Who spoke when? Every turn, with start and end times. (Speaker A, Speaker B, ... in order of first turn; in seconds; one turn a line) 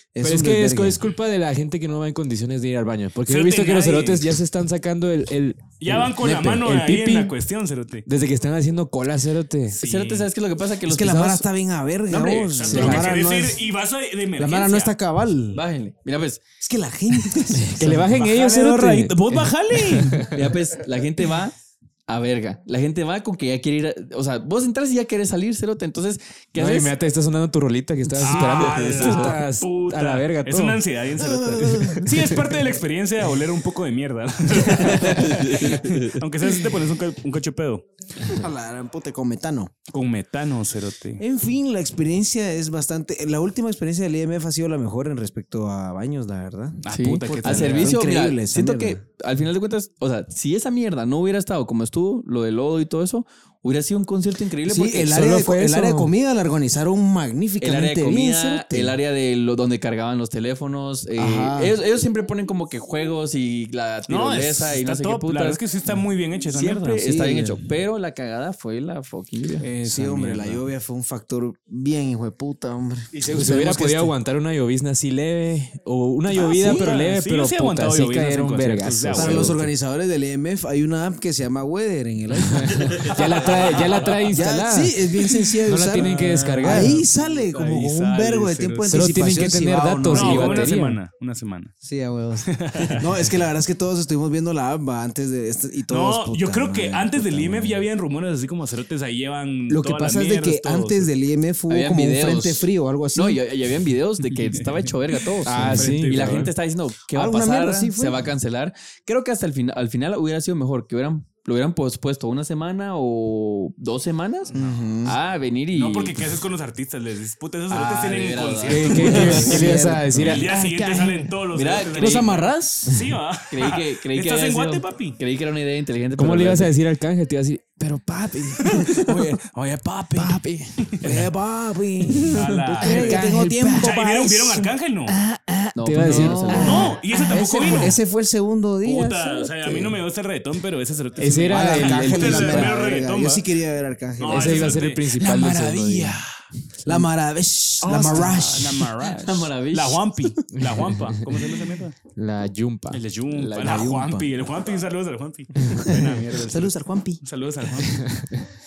Speaker A: 0.1-1.0
Speaker B: 0.2-7.3
Speaker C: 3.2-4.3
Speaker C: 5.8-8.1
Speaker B: 8.1-9.8
Speaker C: 9.7-10.3
Speaker D: 9.8-11.4
Speaker A: 10.8-13.6
Speaker D: 12.1-13.1
Speaker C: 12.3-14.9
Speaker B: 12.7-13.0
Speaker A: 14.4-15.6
Speaker D: 15.5-16.4
Speaker A: 16.6-18.1
Speaker B: 17.5-20.4
Speaker C: 17.8-20.2
Speaker D: 20.3-21.5
Speaker D: 22.1-26.9
Speaker B: 26.6-30.8
Speaker C: 28.2-37.9
Speaker D: 28.2-29.4
Speaker A: 31.2-32.0
Speaker D: 34.7-36.2
Speaker A: 38.2-39.7
Speaker C: 39.9-41.2
Speaker A: 41.2-49.0
Speaker C: 46.8-48.0
Speaker D: 46.9-55.4
Speaker A: 54.6-59.0
Speaker B: 55.1-56.0
Speaker D: 57.6-65.6
Speaker A: 61.2-61.8
Speaker C: 64.1-67.0
Speaker D: 66.5-69.7
Speaker A: 67.0-67.6
Speaker A: 69.6-74.1
Speaker B: 69.8-70.6
Speaker C: 73.2-73.5
Speaker B: 73.2-79.7
Speaker C: 76.3-79.5
Speaker A: 79.1-90.7
Speaker B: 82.5-85.0
Speaker C: 83.3-84.1
Speaker B: 85.6-87.0
Speaker C: 85.9-89.4
Speaker B: 88.9-91.0
Speaker C: 90.1-91.7
Speaker A: 91.8-97.9
Speaker C: 92.5-93.1
Speaker C: 95.9-101.1
Speaker A: 99.7-103.4
Speaker D: 101.7-114.5
Speaker B: 105.4-106.5
Speaker C: 105.6-106.5
Speaker A: 107.1-108.2
Speaker A: 114.5-115.2
Speaker C: 114.5-114.9
Speaker D: 115.0-116.4
Speaker C: 115.7-125.2
Speaker D: 117.7-120.0
Speaker B: 118.7-120.5
Speaker A: 119.2-121.3
Speaker D: 121.5-122.4
Speaker A: 121.9-123.0
Speaker D: 123.5-126.7
Speaker B: 126.2-129.1
Speaker C: 128.7-131.3
Speaker B: 130.2-130.8
Speaker A: 131.0-134.7
Speaker C: 132.3-135.1
Speaker B: 132.8-134.0
Speaker B: 135.1-136.9
Speaker D: 135.7-137.0
Speaker A: 136.0-140.0
Speaker C: 136.5-137.9
Speaker C: 138.8-143.4
Speaker B: 141.2-142.8
Speaker A: 141.5-144.8
Speaker C: 144.2-146.2
Speaker B: 144.3-146.2
Speaker A: 146.8-148.9
Speaker C: 147.8-151.9
Speaker D: 149.0-150.2
Speaker B: 150.5-151.2
Speaker B: 152.1-153.8
Speaker C: 152.9-158.0
Speaker A: 153.6-154.3
Speaker A: 155.7-157.2
Speaker B: 157.9-158.3